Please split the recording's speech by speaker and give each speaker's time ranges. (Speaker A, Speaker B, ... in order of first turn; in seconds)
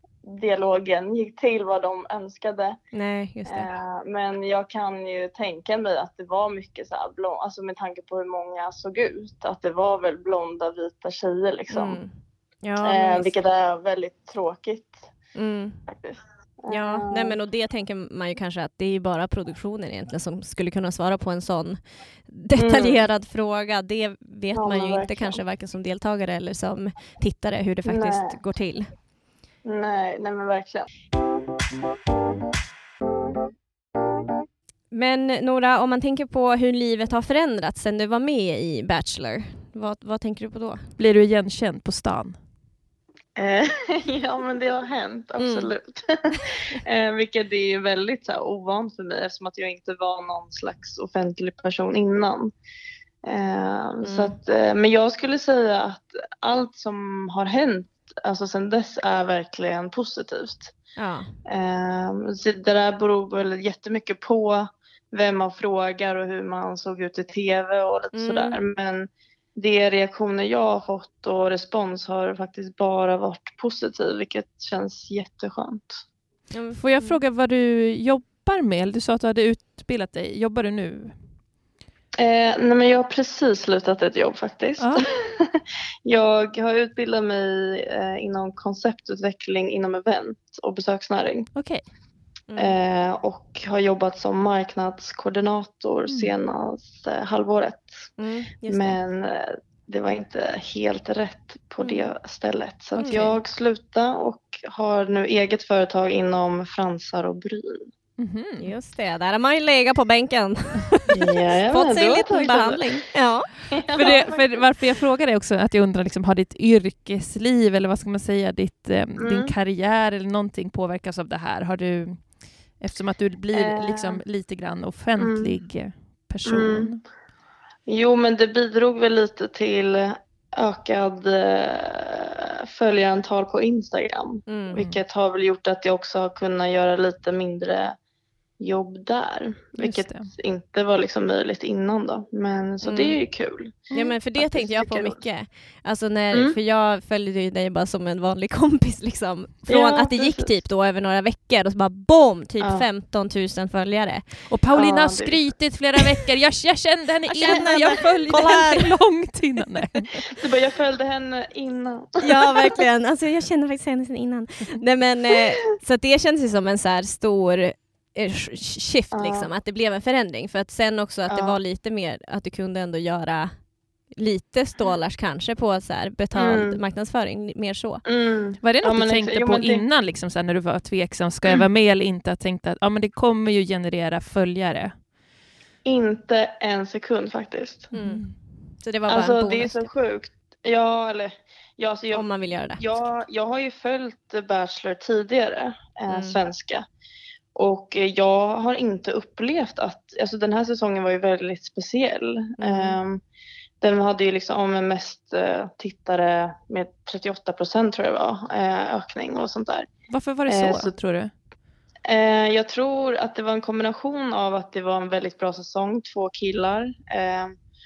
Speaker A: 0.2-2.8, 3.5-12.0, 12.8-15.1, 15.9-17.4, 22.6-23.0, 24.6-25.4, 27.9-28.4, 29.6-30.9, 43.4-52.5, 53.2-60.7, 61.5-76.0, 82.2-91.5, 92.6-98.0, 98.7-107.9, 111.1-113.1, 113.7-114.6, 119.2-119.5, 123.5-124.2, 125.2-125.5, 126.5-126.9, 127.9-138.0, 138.6-145.2, 146.3-146.6, 149.7-150.5, 152.6-152.9, 154.7-155.4, 157.4-158.0, 160.3-162.8, 169.1-169.5, 171.3-171.6, 176.3-176.8, 178.1-179.8, 185.8-187.9, 189.1-192.3, 192.8-196.8, 197.6-203.2, 203.8-209.9, 210.5-210.9, 212.1-217.5
Speaker B: 2.9-3.7, 11.7-13.3, 15.3-15.8, 16.7-28.9, 34.9-40.9, 45.4-45.7, 54.0-54.4, 61.0-61.3, 68.1-68.6, 76.5-77.2, 92.5-92.8, 98.2-99.0, 101.8-102.1, 103.0-103.3, 108.6-111.2, 111.7-113.5, 134.5-134.8, 142.8-143.2, 143.9-154.5, 157.3-159.0, 162.2-178.0, 187.9-188.3, 188.8-189.9, 192.1-192.9, 196.1-196.4, 202.6-203.0
Speaker C: 41.0-42.4, 76.7-81.2, 84.8-85.0, 91.5-91.8, 103.0-103.4, 108.2-108.7, 113.9-127.0, 134.7-135.0, 139.8-140.3, 154.5-160.2, 178.6-184.9, 187.9-188.4, 210.1-211.3